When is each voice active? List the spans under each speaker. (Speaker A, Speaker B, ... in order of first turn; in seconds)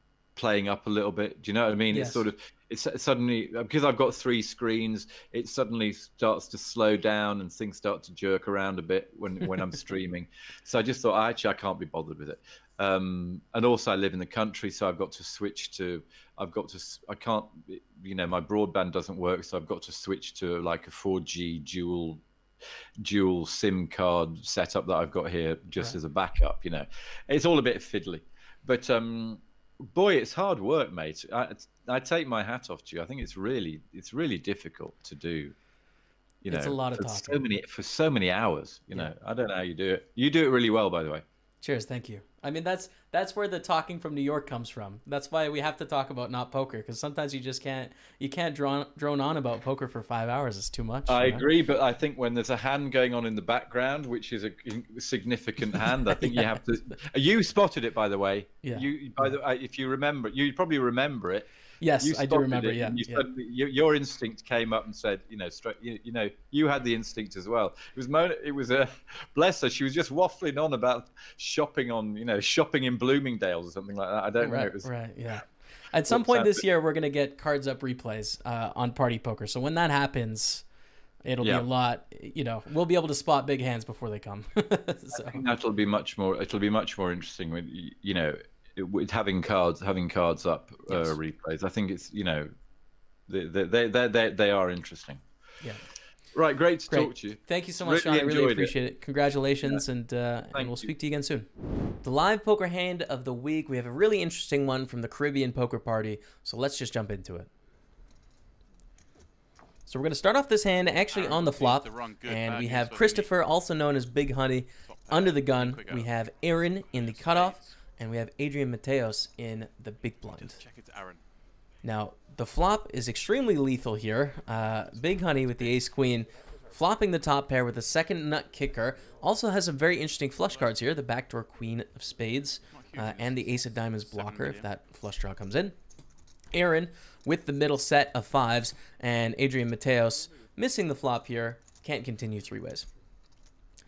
Speaker A: 0.4-22.2, 23.0-35.5, 36.4-41.2, 51.1-74.9, 76.1-76.6, 81.4-81.7, 85.1-92.5, 93.3-95.2, 96.3-98.8, 100.5-100.9
Speaker B: 1.9-2.3, 36.5-37.4, 41.6-51.5, 56.2-56.6, 58.6-59.3, 61.8-63.3, 74.4-80.7, 81.2-85.4, 90.9-91.2, 96.9-101.5, 102.0-107.5, 109.9-120.6, 121.8-135.8, 136.5-142.9
Speaker C: 111.1-113.3, 114.8-116.1, 116.9-117.8, 120.2-121.2, 125.3-125.9, 130.4-130.7, 132.6-134.7